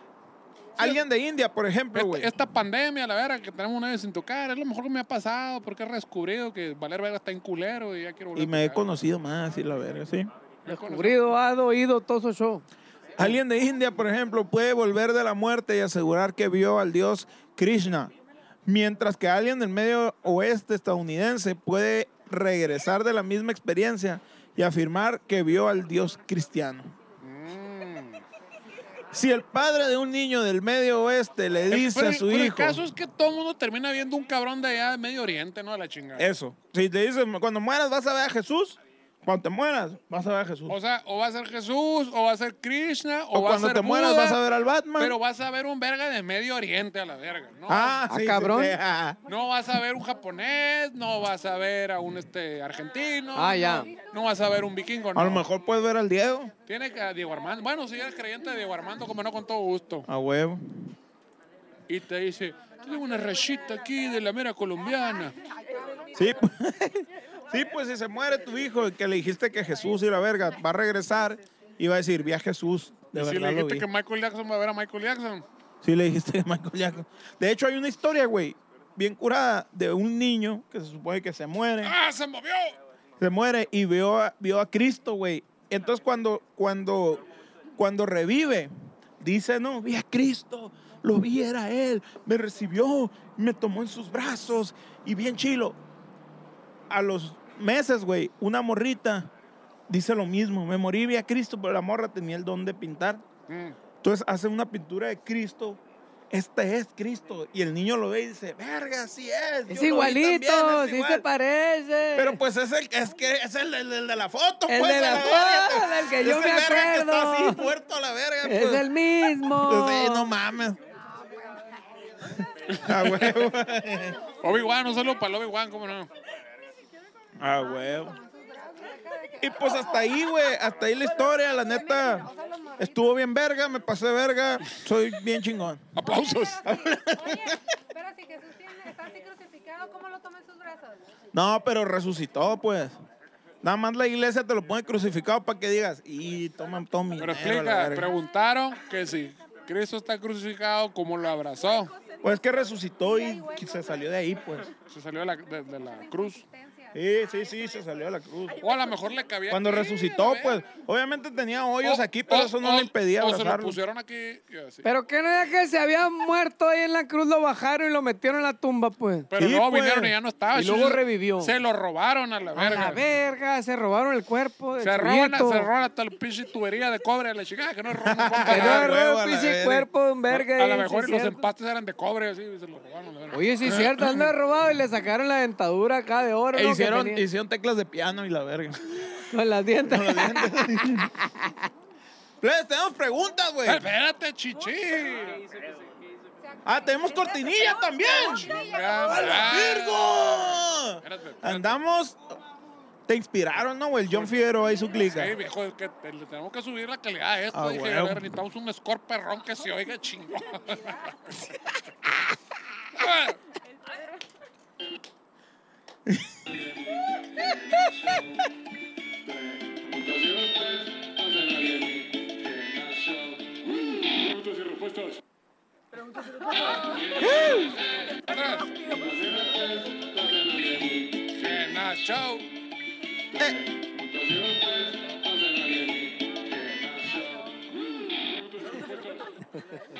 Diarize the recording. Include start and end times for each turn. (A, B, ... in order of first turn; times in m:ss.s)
0:00.8-0:02.3 A
0:01.9-0:08.9 B
0:08.3-0:10.3 A
0:10.6-0:11.2 B
0:10.7-0:12.6 C
0:13.2-0:18.1 A
0:18.6-0:26.9 A
0:27.2-0:28.2 B
0:29.1-0:32.8 A
0:31.7-0:36.3 B
0:36.2-0:40.8 A
0:40.7-0:44.4 B
0:43.3-0:45.2 A
0:45.0-0:48.0 B
0:47.7-0:49.2 A
0:48.1-0:48.8 C
0:49.3-0:55.4 B
0:53.3-0:53.9 C
0:55.1-0:56.5 A
0:56.7-1:00.1 B
1:00.1-1:00.9 A
1:01.9-1:05.4 B
1:05.7-1:06.1 D
1:06.1-1:13.8 A
1:13.1-1:15.4 B
1:15.8-1:21.9 A
1:21.8-1:22.7 B
1:23.2-1:27.2 A
1:27.8-1:35.8 A
1:36.9-1:39.3 A
1:39.9-1:43.2 A
1:43.5-1:43.8 B
1:44.0-1:45.8 A
1:46.3-1:51.2 A
1:49.7-1:52.4 C
1:52.1-1:58.9 A
1:54.7-1:57.7 C
1:58.4-2:00.3 C
1:59.4-2:00.8 A
2:01.0-2:01.6 D
2:02.7-2:03.4 B
2:02.8-2:04.2 A
2:04.4-2:06.1 B
2:07.4-2:08.2 A
2:07.6-2:10.4 D
2:09.4-2:12.3 A
2:11.3-2:13.2 D
2:12.8-2:15.8 A
2:15.9-2:16.6 B
2:16.0-2:21.0 D
2:16.6-2:17.6 A
2:21.3-2:23.0 A
2:23.6-2:28.1 A
2:27.2-2:31.9 B
2:32.2-2:34.7 A
2:33.2-2:34.0 D
2:34.9-2:36.4 B
2:36.0-2:37.0 D
2:36.9-2:38.6 A
2:38.6-2:40.6 B
2:39.5-2:43.8 A
2:41.8-2:44.8 B
2:44.8-2:49.3 C
2:49.3-2:53.0 B
2:49.4-2:50.1 A
2:50.5-2:51.5 C
2:52.6-2:55.7 C
2:54.8-2:59.0 B
2:58.0-2:59.9 A
2:58.4-3:01.4 C
3:00.3-3:04.3 B
3:03.3-3:07.2 C
3:06.5-3:09.0 A
3:09.3-3:11.7 C
3:09.8-3:11.1 A
3:12.4-3:13.8 A
3:13.6-3:15.5 B
3:16.4-3:19.5 D
3:16.6-3:22.3 A
3:18.4-3:21.8 B
3:23.1-3:25.4 A
3:24.1-3:24.3 B
3:24.9-3:31.4 B
3:27.5-3:28.2 A
3:32.9-3:33.4 B
3:36.1-3:36.3 A
3:37.4-3:38.4 B
3:39.3-3:45.2 B
3:46.6-3:52.5 B
3:53.4-3:53.6 A
3:53.4-3:57.5 B
3:58.0-3:59.2 B